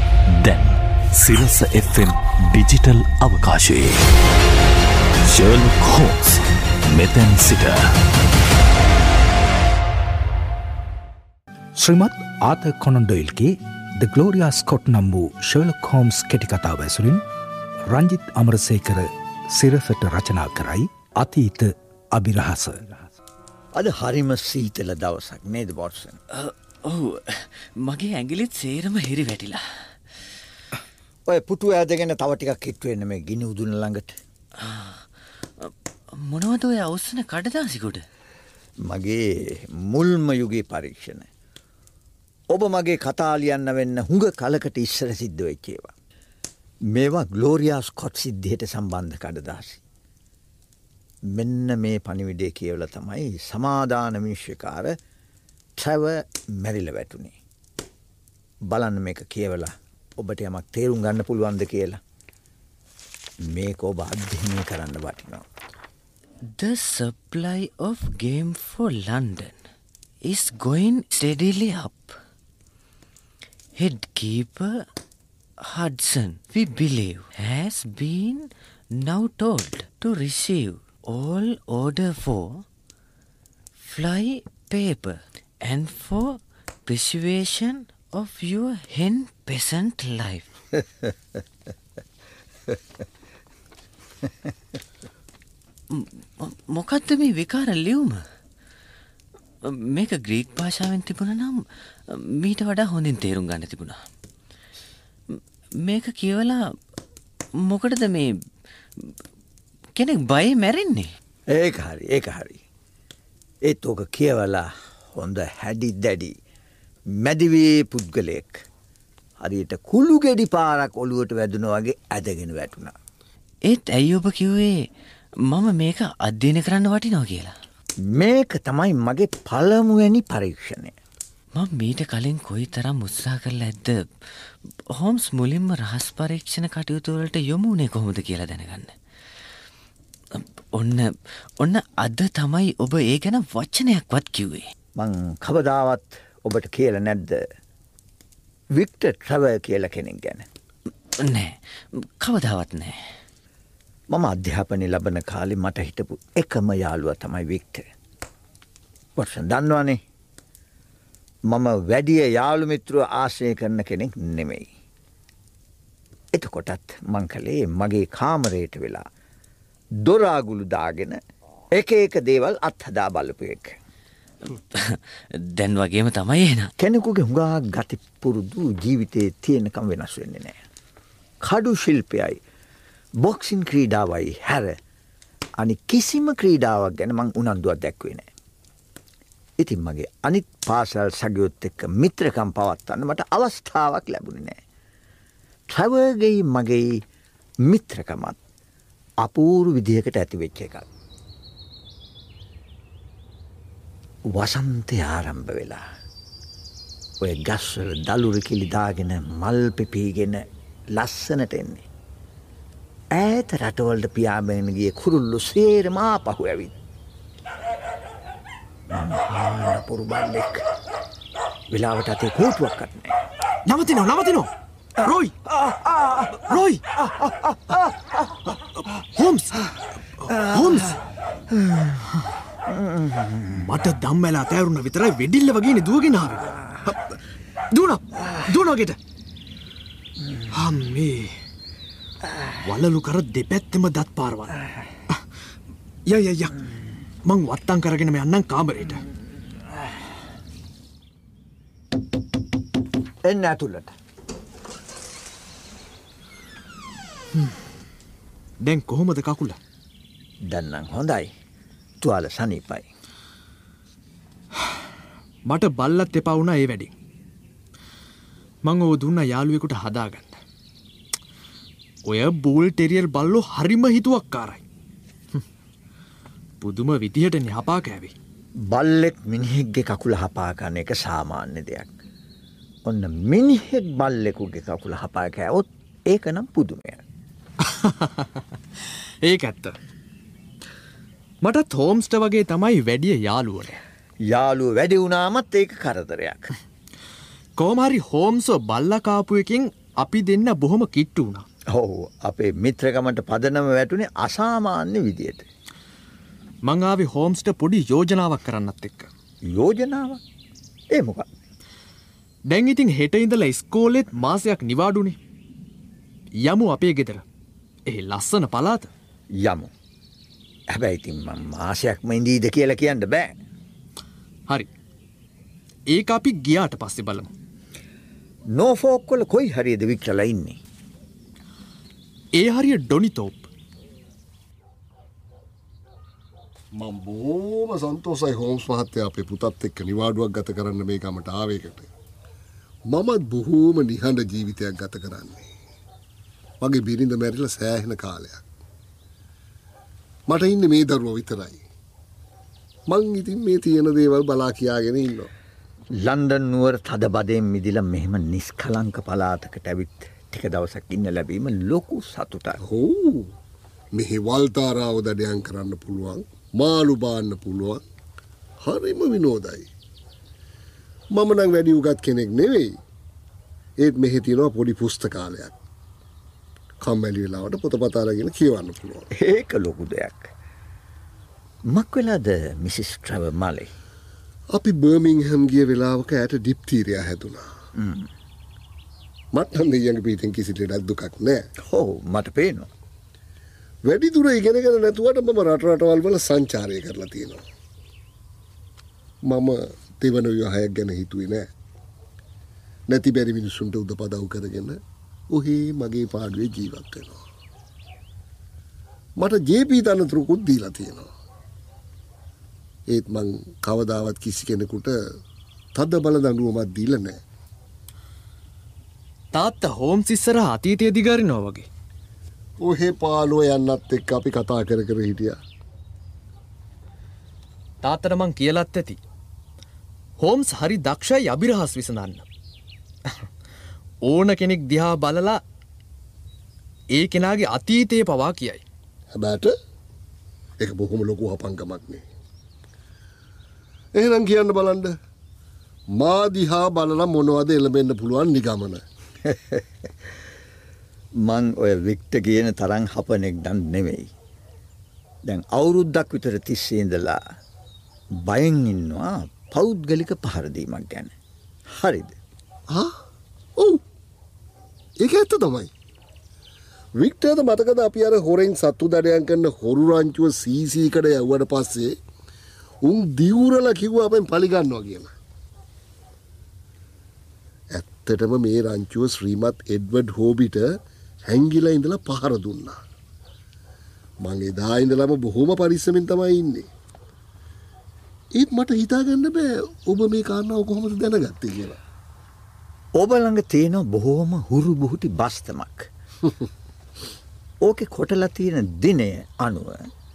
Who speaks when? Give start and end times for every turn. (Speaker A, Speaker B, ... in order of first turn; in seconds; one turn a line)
Speaker A: 0.3-4.0
Speaker A: 5.2-7.8
Speaker B: 11.8-17.2
Speaker B: 17.9-23.1
Speaker C: 23.7-26.2
Speaker D: 26.3-29.6
Speaker C: 31.2-34.2
Speaker D: 34.6-35.1
Speaker D: 35.6-38.0
Speaker C: 38.8-41.3
Speaker C: 42.5-45.9
Speaker C: 46.9-49.8
Speaker C: 51.3-55.0
Speaker C: 55.8-57.4
Speaker C: 58.7-62.0
Speaker C: 63.5-65.4
Speaker D: 66.5-69.6
Speaker D: 70.2-72.2
Speaker D: 73.8-74.9
Speaker D: 75.6-82.6
Speaker D: 83.8-90.5
Speaker D: 95.9-98.2
Speaker D: 99.6-104.0
Speaker D: 105.3-106.8
Speaker D: 107.6-108.4
Speaker D: 110.0-111.2
Speaker C: 111.5-112.6
Speaker C: 113.6-116.3
Speaker C: 117.1-118.6
Speaker C: 119.4-122.9
Speaker D: 123.6-124.9
Speaker D: 125.5-127.5
Speaker C: 128.0-130.9
Speaker D: 131.6-134.1
Speaker D: 134.9-138.9
Speaker D: 140.3-144.7
Speaker C: 144.9-147.4
Speaker C: 148.7-150.5
Speaker D: 151.2-153.0
Speaker C: 154.1-157.9
Speaker C: 159.2-160.0
Speaker C: 161.5-164.7
Speaker C: 166.3-169.0
Speaker C: 170.0-171.2
Speaker C: 171.7-173.8
Speaker D: 174.5-176.7
Speaker C: 176.8-180.6
Speaker C: 181.4-182.4
Speaker C: 183.2-184.8
Speaker C: 185.6-188.3
Speaker C: 189.6-194.6
Speaker C: 195.7-197.0
Speaker C: 197.7-198.4
Speaker C: 199.2-200.9
Speaker C: 204.3-205.8
Speaker C: 207.2-211.8
Speaker C: 213.1-216.8
Speaker C: 218.9-220.6
Speaker C: 221.7-223.2
Speaker E: 223.6-225.3
Speaker E: 226.4-226.9
Speaker E: 228.9-231.0
Speaker C: 232.7-233.5
Speaker E: 233.5-237.2
Speaker E: 237.7-239.0
Speaker E: 240.5-241.3
Speaker E: 242.7-244.6
Speaker E: 246.1-246.6
Speaker E: 247.2-249.0
Speaker C: 253.2-253.9
Speaker E: 258.6-259.6
Speaker C: 260.4-261.3
Speaker C: 262.0-262.9
Speaker E: 265.5-266.9
Speaker E: 268.6-270.4
Speaker E: 272.1-274.6
Speaker E: 276.6-278.1
Speaker C: 278.6-281.9
Speaker C: 282.8-287.0
Speaker E: 287.6-288.4
Speaker E: 289.2-289.8
Speaker E: 291.4-293.8
Speaker C: 294.2-296.5
Speaker E: 297.6-301.4
Speaker C: 301.7-305.5
Speaker E: 306.7-309.1
Speaker C: 309.4-310.2
Speaker C: 310.9-311.3
Speaker E: 312.5-315.2
Speaker E: 316.4-317.2
Speaker E: 317.9-318.9
Speaker C: 319.4-319.7
Speaker C: 320.7-323.4
Speaker E: 325.9-327.3
Speaker C: 328.5-330.6
Speaker E: 332.4-333.5
Speaker F: 336.8-341.9
Speaker F: 342.9-345.5
Speaker F: 346.6-348.4
Speaker F: 350.3-351.6
Speaker F: 352.9-355.3
Speaker C: 356.0-362.6
Speaker F: 362.6-363.3
Speaker F: 363.9-367.8
Speaker F: 368.6-369.7
Speaker F: 371.1-372.8
Speaker F: 373.8-375.5
Speaker F: 376.8-379.1
Speaker C: 379.1-380.3
Speaker C: 381.7-383.7
Speaker F: 384.5-387.4
Speaker C: 387.8-388.1
Speaker F: 389.3-391.4
Speaker C: 391.6-392.7
Speaker F: 393.9-397.4
Speaker F: 399.2-401.5
Speaker F: 402.9-404.8
Speaker F: 405.3-407.2
Speaker F: 409.2-411.1
Speaker F: 412.9-415.0
Speaker F: 415.8-417.2
Speaker E: 419.3-421.7
Speaker F: 422.6-425.4
Speaker E: 427.8-429.0
Speaker E: 430.2-432.2
Speaker E: 434.1-435.4
Speaker E: 436.9-438.6
Speaker F: 439.1-439.5
Speaker F: 440.6-442.0
Speaker F: 443.9-444.9
Speaker F: 445.9-448.8
Speaker C: 449.2-449.6
Speaker C: 451.2-454.1
Speaker C: 455.2-457.2
Speaker C: 458.2-461.1
Speaker C: 461.7-462.1
Speaker F: 462.7-462.9
Speaker F: 465.0-465.7
Speaker F: 467.0-471.9
Speaker F: 472.8-475.1
Speaker F: 477.7-480.8
Speaker F: 481.3-482.8
Speaker F: 484.2-486.7
Speaker F: 488.4-491.8
Speaker C: 493.0-495.9
Speaker C: 497.6-499.9